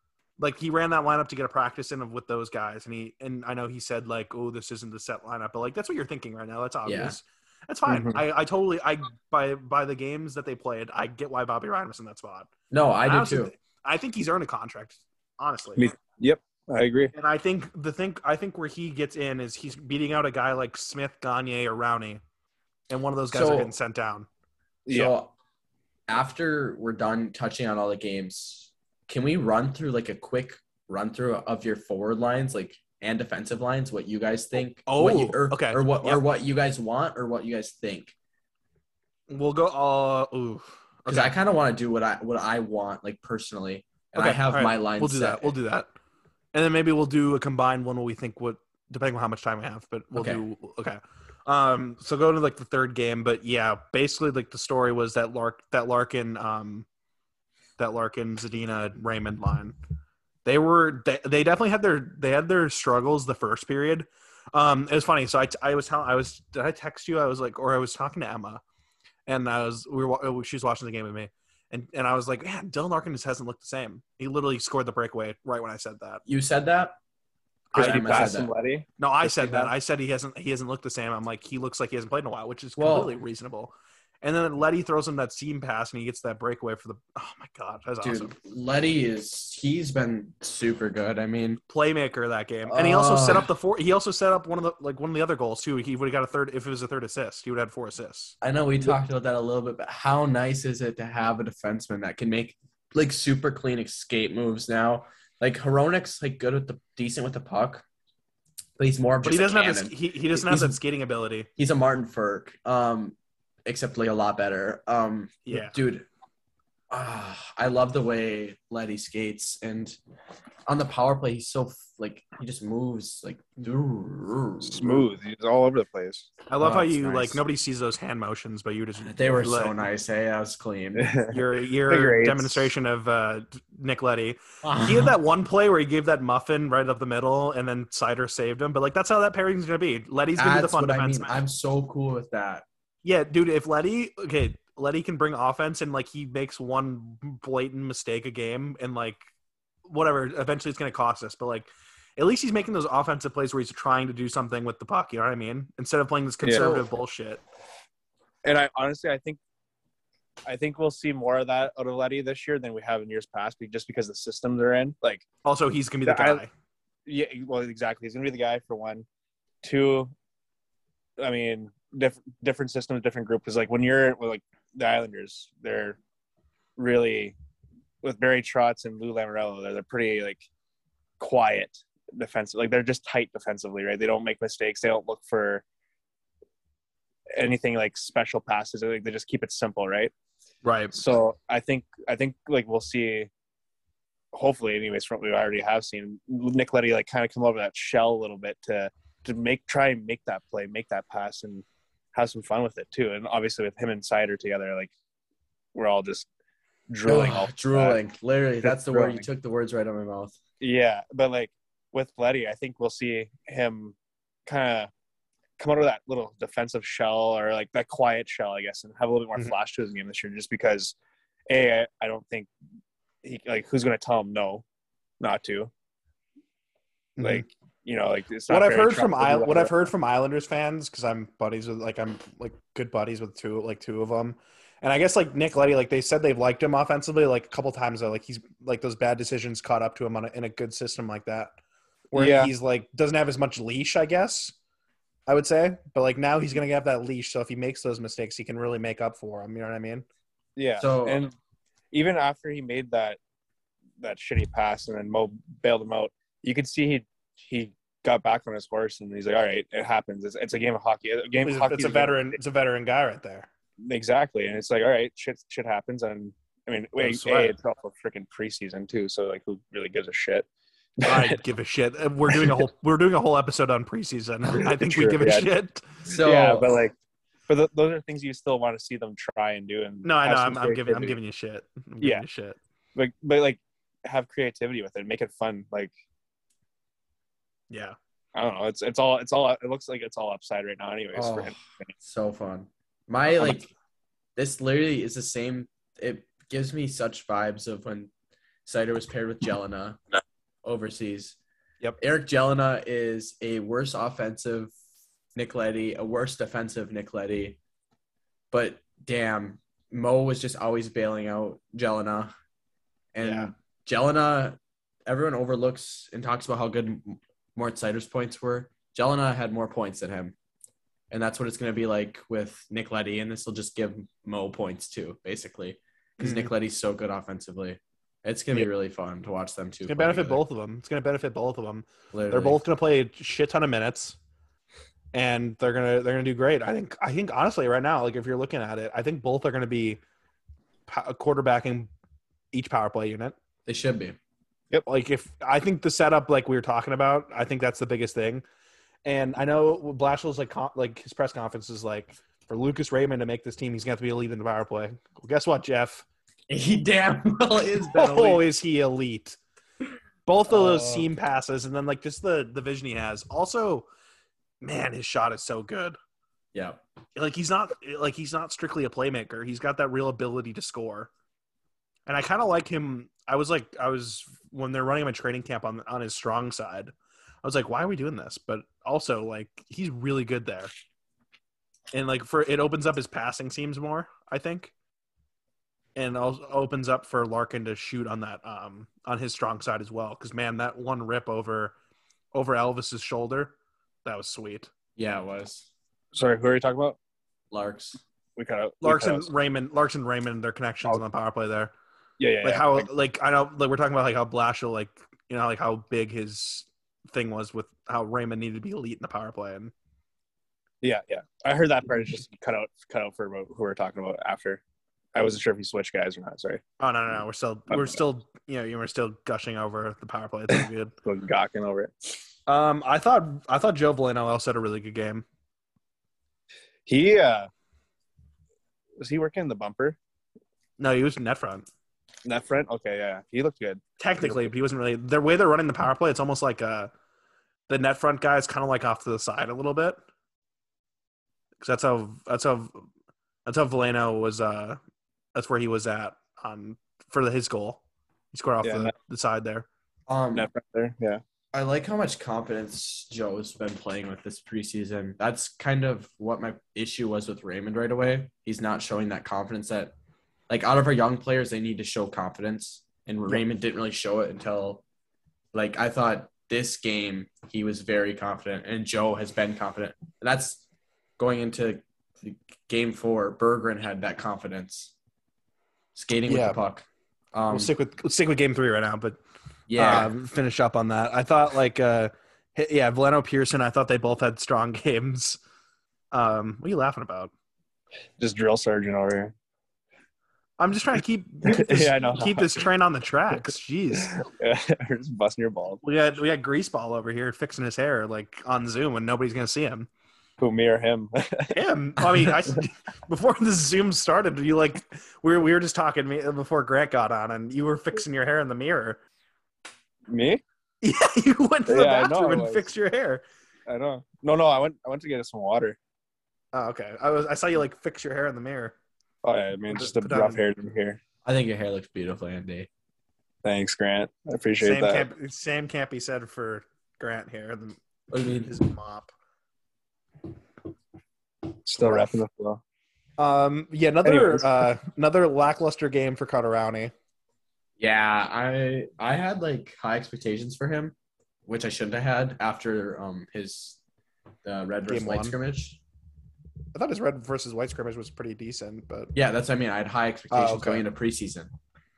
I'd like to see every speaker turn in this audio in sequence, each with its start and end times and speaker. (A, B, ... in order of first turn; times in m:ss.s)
0:00.4-0:12.5 A
0:06.8-0:07.2 B
0:07.9-0:08.2 C
0:12.7-0:13.5 B
0:13.0-0:15.9 A
0:15.8-0:17.1 C
0:17.1-0:22.2 A
0:22.9-0:24.3 A
0:23.3-0:23.7 B
0:24.9-0:25.1 C
0:24.9-0:25.4 B
0:26.1-0:38.2 B
0:34.9-0:36.2 A
0:39.3-0:41.4 A
0:41.1-0:45.5 B
0:44.2-0:45.9 A
0:46.5-0:56.9 A
0:50.2-0:50.4 B
0:57.8-0:59.8 A
1:00.4-1:08.6 A
1:09.3-1:16.2 A
1:16.3-1:17.0 B
1:17.7-1:18.2 A
1:17.7-1:18.5 B
1:17.7-1:18.9 C
1:19.0-1:28.4 A
1:19.3-1:19.7 B
1:22.8-1:23.2 B
1:28.0-1:31.6 B
1:31.7-1:38.4 A
1:32.7-1:33.5 B
1:38.4-1:47.8 B
1:48.8-1:50.8 B
1:49.2-1:51.5 A
1:51.6-1:56.1 B
1:55.5-1:55.8 A
1:56.9-2:00.0 B
2:00.7-2:05.1 B
2:04.6-2:06.3 C
2:06.5-2:09.8 A
2:06.6-2:07.4 B
2:09.0-2:11.1 B
2:11.0-2:12.7 C
2:11.3-2:21.4 A
2:14.6-2:15.2 B
2:20.4-2:22.6 B
2:23.0-2:29.2 A
2:29.9-2:37.4 A
2:36.4-2:36.7 C
2:36.5-2:36.9 B
2:38.4-2:39.4 C
2:40.5-2:45.2 C
2:45.4-2:46.5 A
2:46.1-2:46.4 C
2:47.1-2:49.1 C
2:49.6-2:50.1 C
2:51.2-2:56.0 C
2:56.8-2:57.3 C
2:58.0-3:00.5 C
3:01.2-3:05.6 C
3:07.3-3:10.1 C
3:10.6-3:11.1 A
3:10.9-3:13.3 C
3:14.3-3:24.9 C
3:25.8-3:26.3 C
3:26.9-3:28.0 C
3:27.0-3:30.4 B
3:28.6-3:29.3 C
3:30.6-3:34.0 C
3:34.5-3:34.9 C
3:35.6-3:41.0 C
3:41.5-3:42.5 C
3:43.2-3:44.6 C
3:45.2-3:45.7 C
3:47.2-3:47.5 A
3:47.2-3:49.8 C
3:48.5-4:01.6 A
4:02.1-4:04.6 A
4:02.2-4:02.5 C
4:05.3-4:10.1 A
4:10.6-4:11.3 C
4:10.8-4:11.2 B
4:11.9-4:13.2 C
4:14.0-4:22.4 C
4:21.4-4:23.5 A
4:23.8-4:30.5 C
4:27.0-4:27.6 A
4:31.0-4:31.4 C
4:31.0-4:36.0 A
4:32.3-4:32.7 C
4:34.7-4:35.5 C
4:36.1-4:36.7 B
4:36.1-4:36.9 C
4:37.5-4:41.2 C
4:40.0-4:42.6 A
4:43.0-4:45.9 C
4:47.7-4:48.0 A
4:48.4-4:51.9 C
4:51.1-4:53.7 B
4:54.4-4:58.1 B
4:58.7-5:00.0 B
5:00.6-5:01.4 B
5:02.0-5:04.7 B
5:05.4-5:07.6 B
5:08.5-5:12.3 B
5:13.1-5:20.4 B
5:13.2-5:13.5 A
5:21.1-5:30.4 B
5:26.2-5:26.5 A
5:29.9-5:34.2 A
5:32.1-5:32.6 B
5:35.1-5:40.0 A
5:40.9-5:41.9 A
5:42.5-5:43.4 A
5:43.7-5:44.2 B
5:44.8-5:48.4 A
5:49.0-5:56.0 A
5:56.5-5:58.4 B
5:58.0-5:59.4 A
6:00.3-6:03.9 A
6:00.5-6:01.1 B
6:04.6-6:06.0 A
6:06.5-6:06.8 B
6:07.2-6:11.1 A
6:12.1-6:20.7 A
6:21.9-6:24.7 A
6:26.0-6:31.7 A
6:32.3-6:34.7 A
6:35.0-6:35.7 B
6:36.1-6:37.0 C
6:37.5-6:38.0 B
6:38.4-6:39.3 C
6:38.8-6:41.7 A
6:42.2-6:42.9 C
6:42.4-6:49.7 A
6:50.8-6:54.6 C
6:55.2-6:56.6 C
6:56.8-7:00.9 A
7:01.0-7:02.2 C
7:02.5-7:05.2 A
7:06.9-7:07.5 C
7:09.0-7:10.0 C
7:10.8-7:11.7 A
7:12.2-7:14.5 C
7:14.0-7:16.9 A
7:17.7-7:20.0 A
7:21.6-7:22.9 A
7:23.5-7:24.8 A
7:25.4-7:27.8 A
7:28.3-7:29.7 A
7:28.6-7:28.9 C
7:30.1-7:30.5 B
7:30.4-7:31.2 C
7:31.5-7:39.9 B
7:40.5-7:44.8 B
7:45.5-7:50.6 B
7:51.2-7:54.9 B
7:56.0-7:57.7 B
7:56.3-7:56.6 A
7:57.5-7:59.2 A
7:59.7-8:00.1 B
7:59.8-8:05.4 A
8:06.1-8:07.3 A
8:08.2-8:09.3 C
8:10.6-8:14.2 A
8:11.5-8:12.6 C
8:14.0-8:15.8 C
8:15.8-8:19.9 A
8:20.4-8:21.6 C
8:21.5-8:29.0 A
8:30.1-8:30.4 C
8:30.8-8:33.2 A
8:31.7-8:32.7 C
8:33.7-8:35.8 C
8:36.5-8:38.8 A
8:39.2-8:41.0 C
8:39.7-8:40.4 A
8:41.2-8:42.7 B
8:43.4-8:45.1 C
8:44.6-8:47.8 A
8:48.1-8:48.5 B
8:48.4-8:49.1 A
8:51.7-8:52.6 C
8:51.8-8:52.1 A
8:53.2-8:56.9 A
8:54.0-8:54.7 C
8:57.8-9:01.0 B
9:01.5-9:03.8 B
9:04.4-9:05.8 B
9:04.9-9:05.4 A
9:06.8-9:09.1 A
9:09.1-9:11.5 B
9:10.3-9:10.8 A